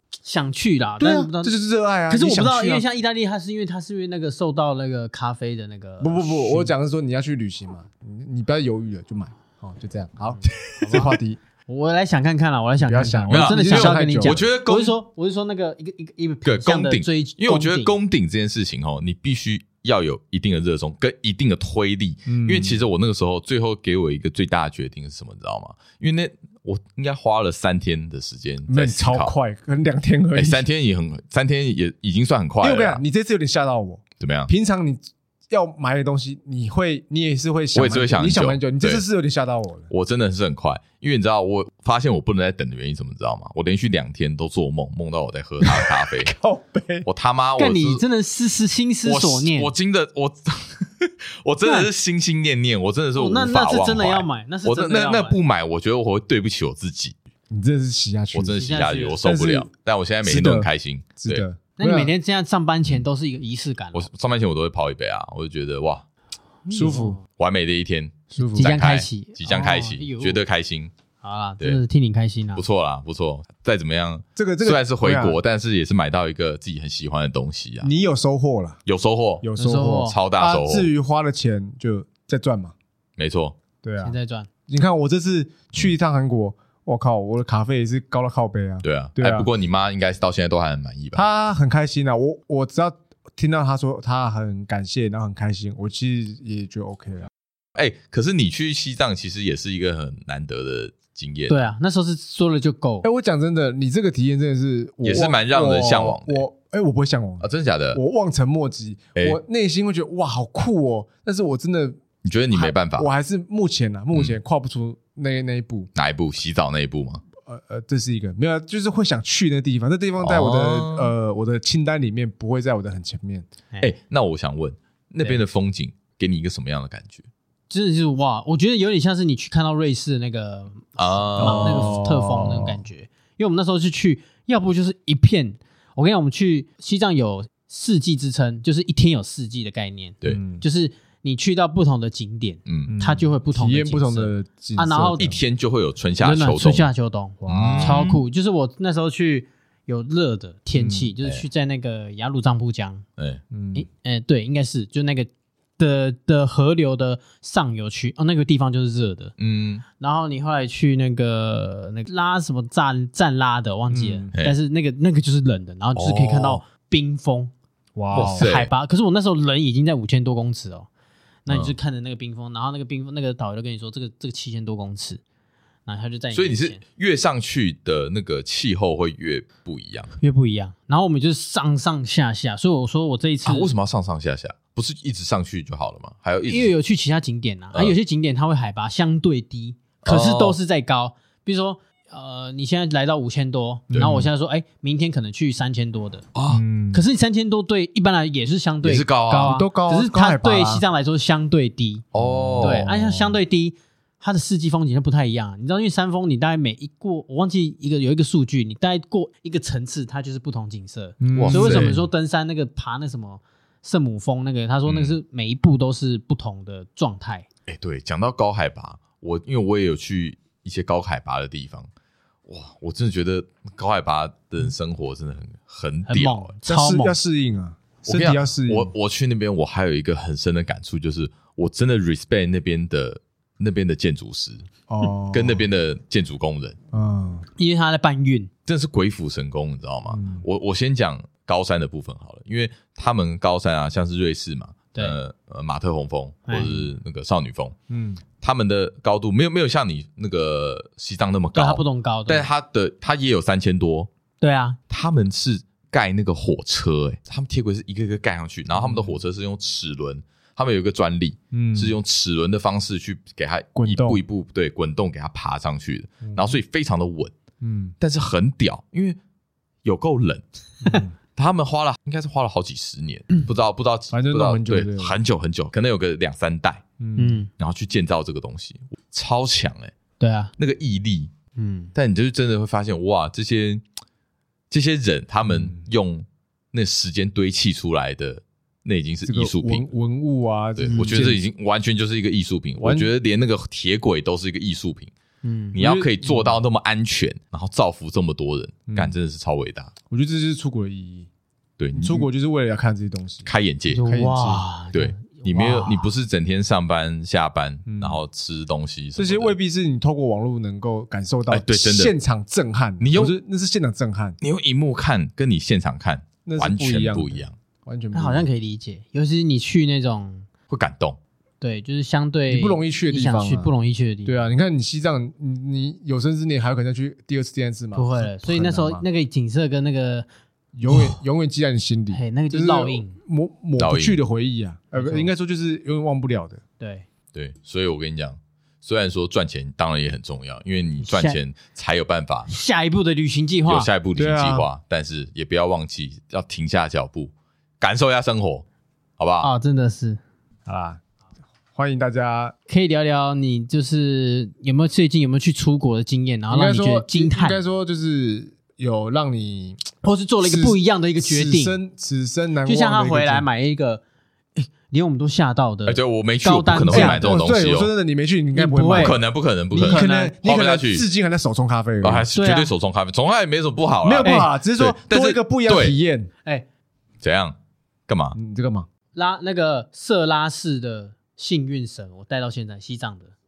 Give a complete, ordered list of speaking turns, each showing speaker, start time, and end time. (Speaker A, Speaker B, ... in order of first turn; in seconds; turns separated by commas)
Speaker A: 0.2-1.6, Speaker B: 1.0-2.8, Speaker A: 2.1-6.7, Speaker B: 6.0-11.4, Speaker A: 10.4-11.1, Speaker A: 11.7-17.9, Speaker B: 12.8-14.4, Speaker C: 13.3-14.9, Speaker C: 16.4-29.3, Speaker B: 22.3-22.8, Speaker B: 28.7-30.6, Speaker C: 30.3-33.0, Speaker B: 32.6-39.9, Speaker C: 34.2-34.5, Speaker C: 37.7-39.0, Speaker C: 39.9-46.3, Speaker B: 45.6-47.1, Speaker C: 47.0-48.0, Speaker A: 47.6-49.7, Speaker C: 49.0-57.1, Speaker A: 51.6-51.9, Speaker A: 53.1-55.4, Speaker B: 57.5-58.6, Speaker C: 58.3-61.4, Speaker A: 58.5-59.2, Speaker B: 59.2-59.7, Speaker B: 60.2-62.1, Speaker A: 61.8-64.1, Speaker C: 63.9-66.0, Speaker A: 66.7-67.2, Speaker B: 66.7-67.2, Speaker C: 67.4-70.9, Speaker B: 68.3-68.8, Speaker A: 68.5-70.4, Speaker A: 71.2-72.6, Speaker C: 72.5-77.9, Speaker B: 74.3-75.4, Speaker B: 77.8-78.8, Speaker C: 78.8-79.5, Speaker B: 79.4-82.7, Speaker A: 79.6-80.2, Speaker C: 80.0-80.9, Speaker C: 83.2-83.5, Speaker B: 83.8-84.2, Speaker A: 84.0-84.5, Speaker B: 84.7-89.5, Speaker C: 88.8-91.2, Speaker B: 91.1-97.3, Speaker C: 97.8-101.7, Speaker A: 101.5-103.0, Speaker B: 103.0-112.0, Speaker C: 105.0-106.4, Speaker C: 107.4-108.0, Speaker C: 112.2-113.1, Speaker B: 112.5-115.9, Speaker C: 115.9-117.2, Speaker B: 117.4-123.5, Speaker C: 120.2-121.1, Speaker C: 123.8-127.2, Speaker A: 127.7-145.3, Speaker C: 131.0-132.0, Speaker B: 131.4-132.8, Speaker B: 140.2-140.6, Speaker C: 142.7-142.9, Speaker B: 142.8-145.4, Speaker C: 145.2-146.9, Speaker A: 146.2-153.0, Speaker B: 147.4-148.1, Speaker C: 147.5-148.2, Speaker B: 150.7-151.1, Speaker B: 153.5-153.8, Speaker A: 153.7-159.3, Speaker C: 159.4-159.8, Speaker A: 160.0-167.5, Speaker B: 163.9-164.3, Speaker C: 165.9-166.6, Speaker B: 167.9-168.5, Speaker C: 168.1-168.7, Speaker A: 168.1-170.9, Speaker A: 171.4-175.2, Speaker C: 171.5-171.8, Speaker A: 175.8-176.8, Speaker C: 176.3-180.1, Speaker A: 180.2-183.7, Speaker C: 183.4-186.7, Speaker A: 186.5-196.2, Speaker C: 190.0-190.6, Speaker B: 193.9-194.3, Speaker C: 196.3-196.6, Speaker B: 196.5-197.0, Speaker A: 196.9-202.0, Speaker C: 198.8-199.6, Speaker B: 199.4-200.8, Speaker C: 202.1-202.9, Speaker B: 202.2-203.4, Speaker A: 202.6-217.4, Speaker B: 211.2-212.1, Speaker C: 211.3-211.9, Speaker C: 214.8-215.2, Speaker C: 217.7-221.9, Speaker C: 222.5-226.5, Speaker A: 226.1-227.2, Speaker B: 226.6-228.9, Speaker C: 228.1-234.6, Speaker B: 234.9-235.7, Speaker C: 235.3-236.8, Speaker B: 236.9-237.5, Speaker A: 237.6-238.5, Speaker C: 238.7-247.7, Speaker B: 240.1-240.4, Speaker A: 246.5-246.8, Speaker B: 247.9-248.2, Speaker C: 248.4-254.1, Speaker A: 251.5-252.5, Speaker A: 254.4-254.8, Speaker C: 254.9-267.3, Speaker B: 258.8-259.1, Speaker B: 261.5-261.9, Speaker B: 263.8-264.2, Speaker B: 266.2-266.5, Speaker B: 267.6-267.9, Speaker C: 268.0-269.2, Speaker C: 269.8-270.4, Speaker B: 270.8-271.1, Speaker C: 271.4-276.8, Speaker B: 274.1-275.1, Speaker B: 277.0-277.4, Speaker A: 277.1-277.5, Speaker C: 277.6-279.9, Speaker A: 280.2-280.5, Speaker C: 280.6-281.3, Speaker A: 281.6-281.9, Speaker C: 281.9-283.8, Speaker C: 284.7-289.9, Speaker B: 285.4-285.9, Speaker B: 289.2-291.4, Speaker C: 290.8-295.1, Speaker A: 290.8-291.2, Speaker B: 292.8-293.1, Speaker A: 295.4-295.8, Speaker C: 295.7-299.9, Speaker B: 295.8-296.5, Speaker B: 298.9-299.1, Speaker B: 300.1-301.3, Speaker C: 301.8-302.2, Speaker B: 301.9-303.5, Speaker C: 303.4-304.0, Speaker A: 303.9-306.1, Speaker B: 304.1-304.6, Speaker C: 304.9-309.5, Speaker B: 307.9-308.2, Speaker B: 309.1-314.4, Speaker C: 311.5-312.1, Speaker C: 313.0-313.3, Speaker C: 314.4-317.5, Speaker B: 316.4-318.5, Speaker A: 318.1-320.5, Speaker C: 320.7-321.2, Speaker A: 321.6-324.5, Speaker B: 322.5-323.7, Speaker B: 324.2-329.0, Speaker A: 327.9-330.3, Speaker B: 330.8-336.6, Speaker A: 332.1-333.1, Speaker C: 333.8-334.2, Speaker A: 334.9-335.3, Speaker A: 336.8-337.1, Speaker C: 337.3-342.5, Speaker A: 341.0-341.4, Speaker A: 342.5-343.9, Speaker C: 343.7-348.6, Speaker B: 344.1-344.6, Speaker C: 349.2-349.5, Speaker A: 349.4-350.2, Speaker B: 350.6-351.0, Speaker B: 351.7-352.5, Speaker A: 352.7-357.6, Speaker B: 356.5-363.5, Speaker A: 360.0-361.8, Speaker A: 362.6-364.0, Speaker A: 364.6-367.3, Speaker C: 365.9-367.9, Speaker B: 366.9-369.2, Speaker A: 368.5-369.2, Speaker C: 368.9-371.0, Speaker A: 369.7-370.4, Speaker B: 369.8-372.3, Speaker C: 372.0-375.9, Speaker A: 372.3-372.7, Speaker B: 374.0-376.3, Speaker A: 374.2-374.5, Speaker C: 377.2-377.5, Speaker C: 378.1-378.4, Speaker B: 378.3-378.9, Speaker A: 379.1-383.3